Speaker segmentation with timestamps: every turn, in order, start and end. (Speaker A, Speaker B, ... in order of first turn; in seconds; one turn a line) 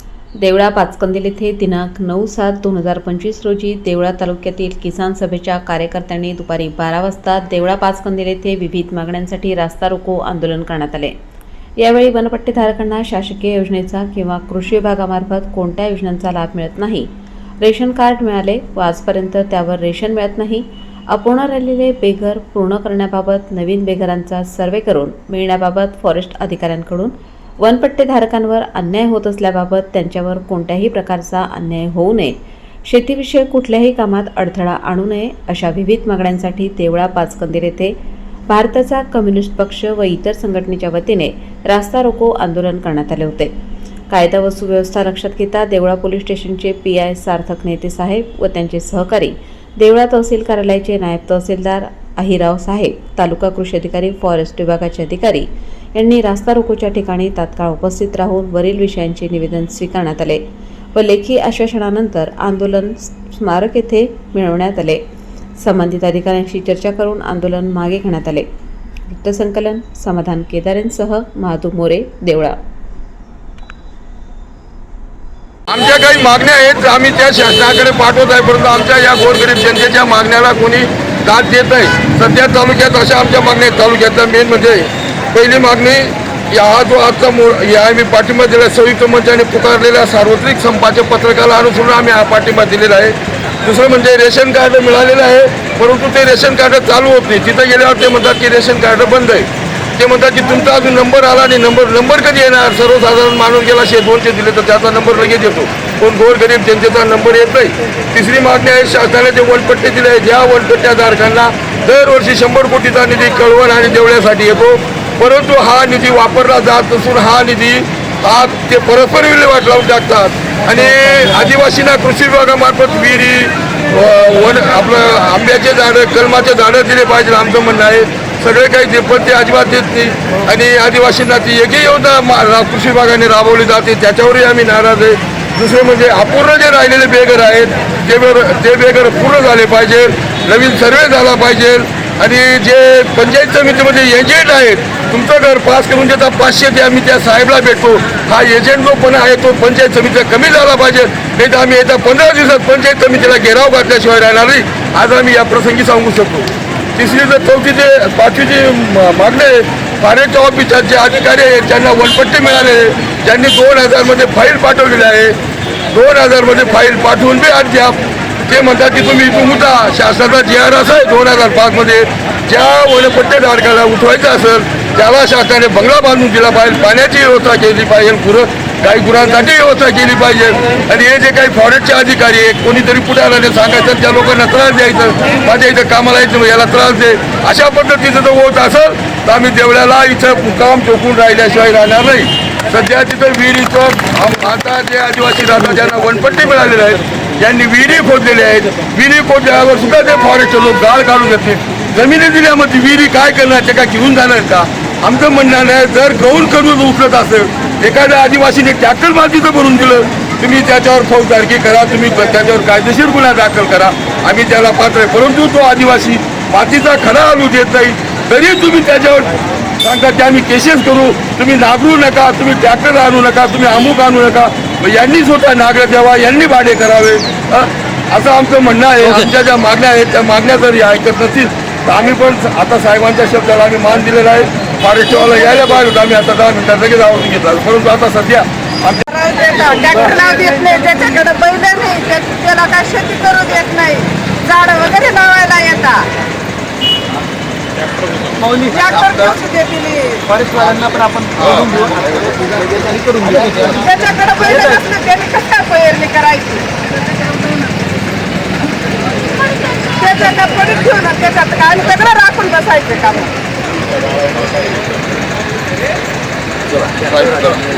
Speaker A: 0.4-11.1
Speaker A: 11.8-17.1
Speaker A: 17.6-38.0
Speaker A: 38.5-43.5
Speaker A: 44.1-60.4
Speaker A: 61.0-65.0
Speaker A: 65.6-68.5
Speaker A: 69.1-72.6
Speaker B: 75.7-165.3
Speaker B: 165.9-239.0
Speaker C: 239.1-246.1
Speaker D: 248.4-249.4
Speaker C: 248.7-250.3
Speaker D: 250.3-253.9
Speaker C: 253.7-256.7
Speaker D: 254.4-254.8
Speaker C: 259.5-263.3
Speaker B: 266.9-267.6